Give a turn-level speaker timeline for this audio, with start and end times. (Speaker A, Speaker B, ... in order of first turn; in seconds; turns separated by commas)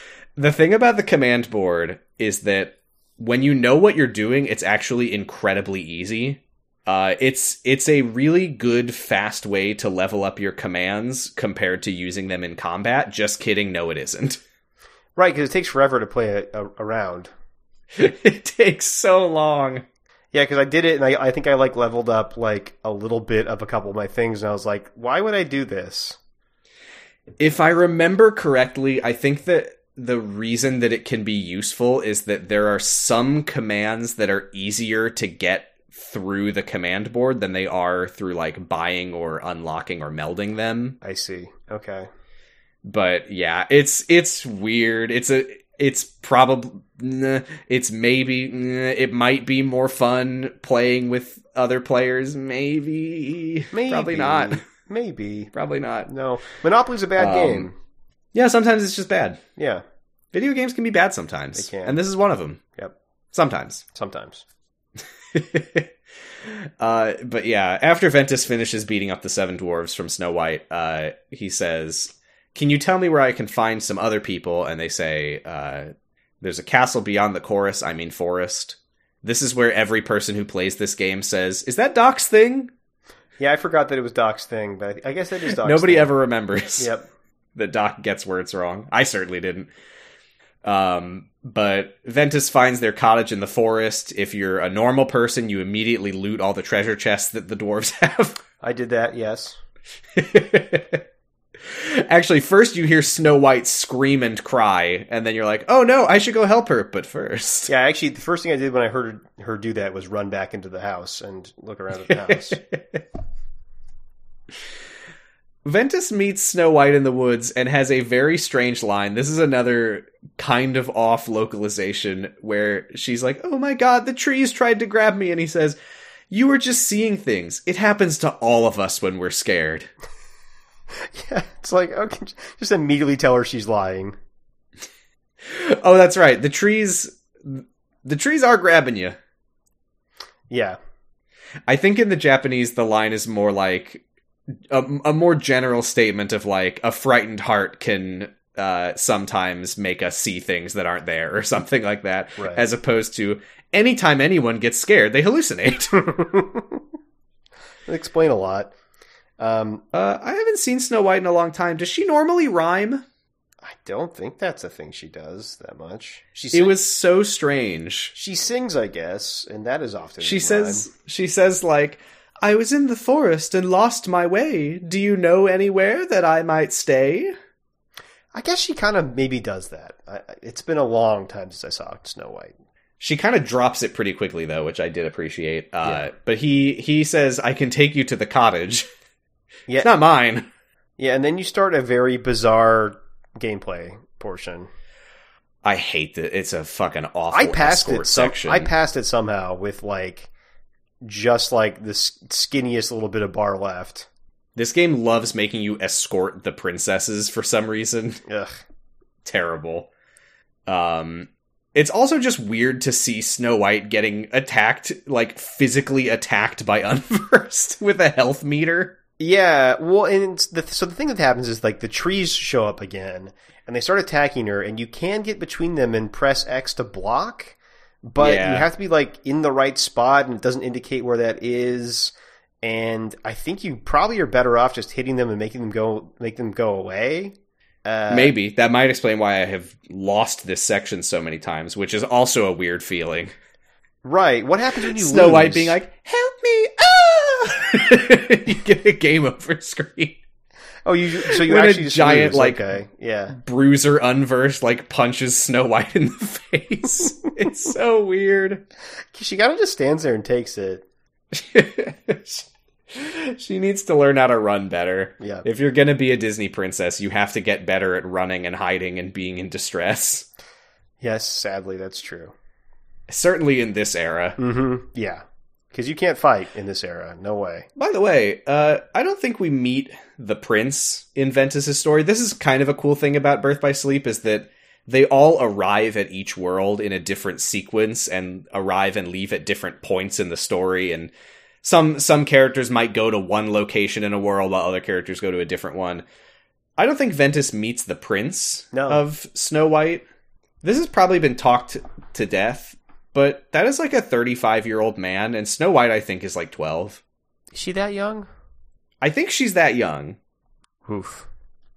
Speaker A: 0.4-14.4, Speaker B: 15.2-17.3, Speaker A: 17.9-19.9, Speaker B: 20.3-26.2, Speaker A: 27.4-41.0, Speaker B: 41.0-42.1, Speaker A: 42.8-54.6, Speaker B: 53.7-55.5, Speaker A: 55.5-56.1, Speaker B: 56.1-57.8, Speaker A: 57.2-57.7, Speaker A: 58.3-59.4, Speaker B: 59.6-59.8, Speaker A: 60.3-62.6, Speaker B: 61.5-62.0, Speaker A: 63.3-63.8, Speaker B: 63.9-64.4, Speaker A: 65.3-65.9, Speaker A: 66.4-82.7, Speaker B: 83.4-86.2, Speaker A: 85.4-86.9, Speaker B: 86.8-87.1, Speaker A: 87.5-89.7, Speaker A: 90.6-98.4, Speaker B: 98.6-99.6, Speaker A: 100.2-101.0, Speaker A: 101.7-107.7, Speaker B: 107.7-112.6, Speaker A: 112.1-113.0, Speaker A: 115.7-125.8, Speaker A: 126.3-129.9, Speaker B: 131.0-134.2, Speaker A: 135.4-139.2, Speaker B: 140.5-140.8, Speaker A: 141.7-144.0, Speaker A: 144.7-156.1, Speaker B: 152.4-152.6, Speaker B: 156.2-156.8, Speaker B: 157.9-158.7, Speaker B: 159.4-159.8, Speaker A: 159.9-163.0, Speaker B: 163.6-166.7, Speaker A: 166.5-168.2, Speaker B: 168.2-170.9, Speaker A: 170.2-177.3, Speaker B: 178.3-182.5, Speaker A: 183.0-188.9, Speaker A: 189.8-190.5, Speaker B: 191.0-194.7, Speaker A: 195.6-198.7, Speaker B: 197.3-200.3, Speaker B: 201.0-204.1, Speaker A: 204.6-208.2, Speaker B: 208.3-208.6, Speaker A: 209.2-209.9, Speaker A: 210.7-219.0, Speaker B: 219.2-237.3, Speaker A: 228.2-228.7, Speaker B: 237.8-238.3, Speaker A: 238.1-243.3, Speaker B: 244.0-245.8, Speaker A: 244.8-250.2, Speaker B: 250.9-253.4, Speaker A: 251.2-252.7, Speaker A: 253.3-258.6, Speaker B: 259.1-260.8, Speaker A: 261.3-270.3, Speaker B: 265.2-265.4, Speaker B: 271.0-272.3, Speaker A: 273.1-274.4, Speaker B: 274.4-277.7, Speaker A: 277.8-296.1, Speaker A: 296.8-300.1, Speaker B: 298.7-299.0, Speaker A: 300.6-307.0, Speaker B: 307.5-308.3, Speaker A: 309.0-310.2, Speaker B: 310.9-311.3